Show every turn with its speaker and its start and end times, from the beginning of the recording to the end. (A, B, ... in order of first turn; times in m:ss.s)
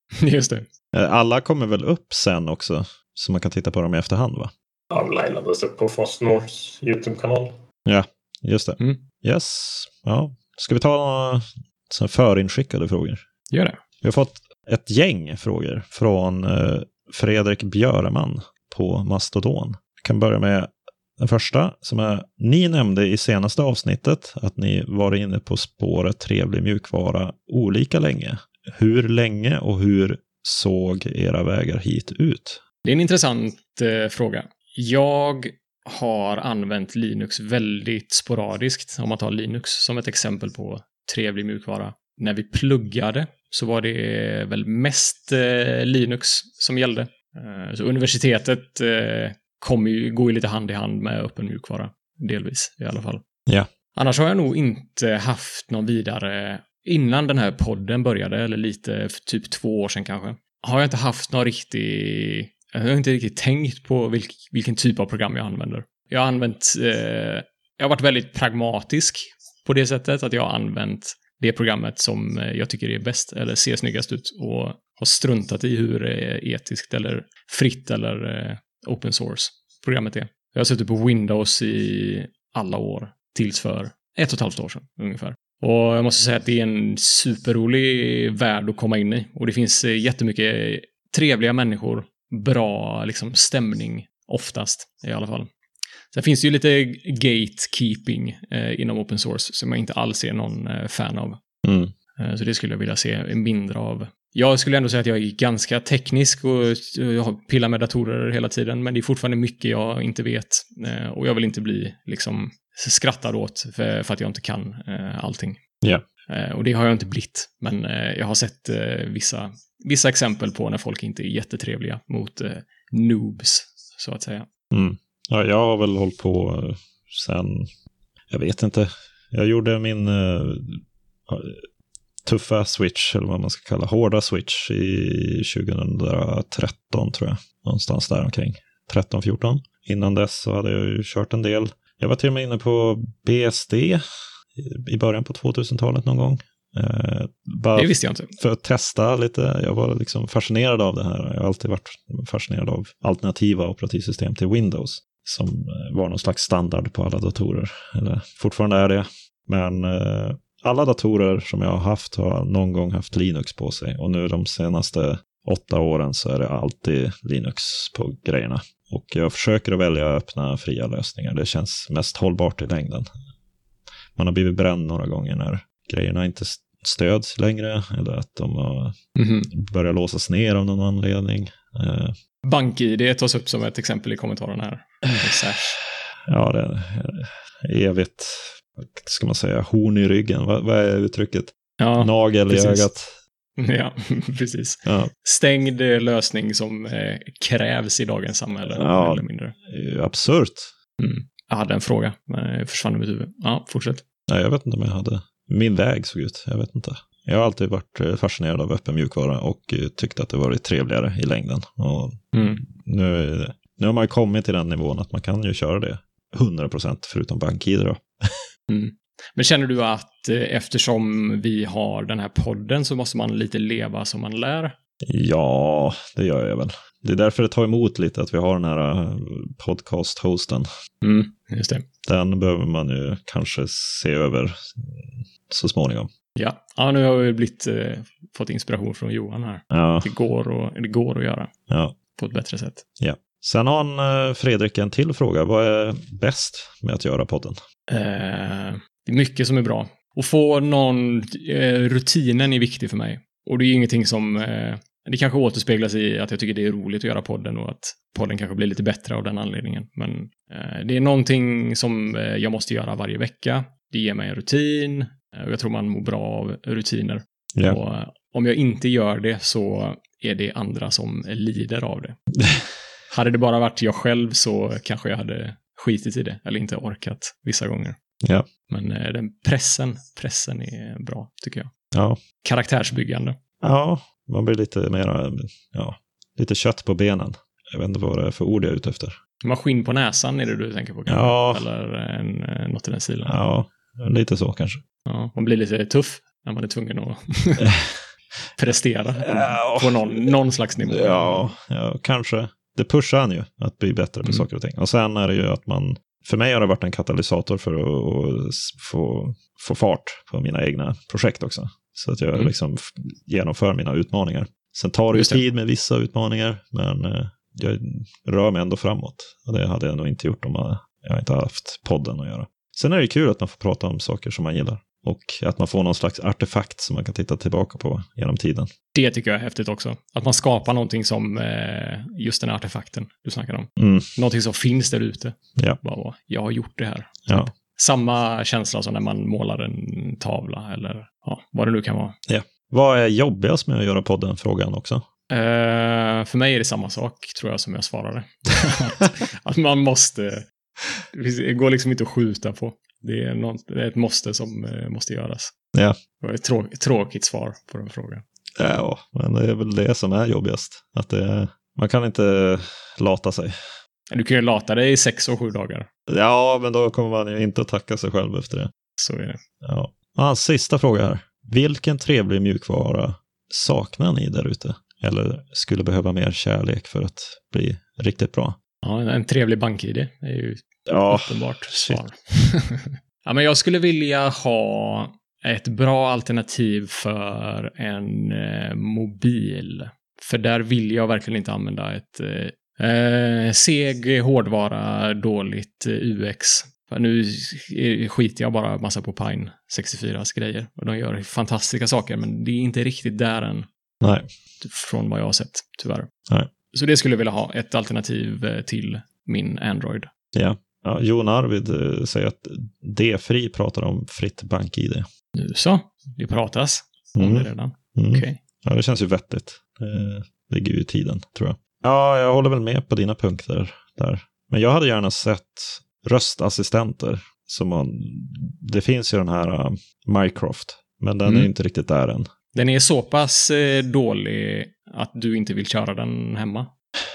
0:00.2-0:00.7 A
0:00.9-0:04.5 B
0:04.9-0:07.6 C
0:07.8-0:13.2 B
0:13.5-0:13.8 A
0:14.0-0:32.6 B
0:32.8-0:53.2 A
0:53.9-1:35.5 A
1:36.1-1:41.4 A
1:41.6-1:41.9 B
1:42.2-1:55.6 A
1:56.3-2:04.5 A
2:04.7-2:07.7 B
2:08.3-2:11.6 B
2:12.2-2:24.0 B
2:24.6-2:53.1 B
2:27.8-2:28.3 A
2:54.2-2:59.0 B
2:59.2-2:59.5 A
2:59.5-3:02.2 B
3:02.4-3:05.8 A
3:06.3-3:13.2 B
3:11.8-3:12.9 A
3:13.6-3:19.6 A
3:18.7-3:20.7 B
3:21.0-3:24.0 A
3:24.3-3:38.4 B
3:32.3-3:32.6 A
3:38.7-3:44.8 A
3:45.0-3:50.7 B
3:51.0-3:51.8 A
3:52.0-3:56.1 B
3:56.4-4:01.5 A
3:59.7-4:00.1 B
4:01.7-4:02.0 B
4:02.2-4:02.8 A
4:03.0-4:07.6 B
4:07.9-4:32.2 A
4:27.5-4:27.8 B
4:33.1-4:38.0 A
4:38.2-4:38.5 B
4:38.7-4:41.7 A
4:41.9-4:42.2 B
4:42.4-4:43.4 A
4:43.6-4:49.2 B
4:49.4-4:53.4 A
4:51.1-4:51.6 B
4:53.2-4:54.8 B
4:55.1-4:57.7 A
4:57.6-4:57.9 B
4:58.6-5:01.5 A
4:59.2-5:00.4 B
5:00.9-5:28.7 B
5:15.1-5:15.4 A
5:29.0-5:42.2 A
5:33.8-5:34.1 B
5:42.3-5:45.0 B
5:45.3-5:50.4 A
5:51.1-5:55.5 A
5:56.2-5:58.2 A
5:58.6-6:03.6 B
6:04.1-6:05.9 A
6:06.1-6:08.7 B
6:09.0-6:09.4 A
6:09.6-6:18.6 B
6:18.8-6:43.7 A
6:20.9-6:22.0 B
6:44.0-6:44.3 B
6:44.6-6:46.1 A
6:46.7-6:50.1 A
6:50.3-6:55.1 B
6:55.4-6:58.4 A
6:57.2-7:12.3 B
7:11.2-7:11.5 A
7:12.5-7:16.7 A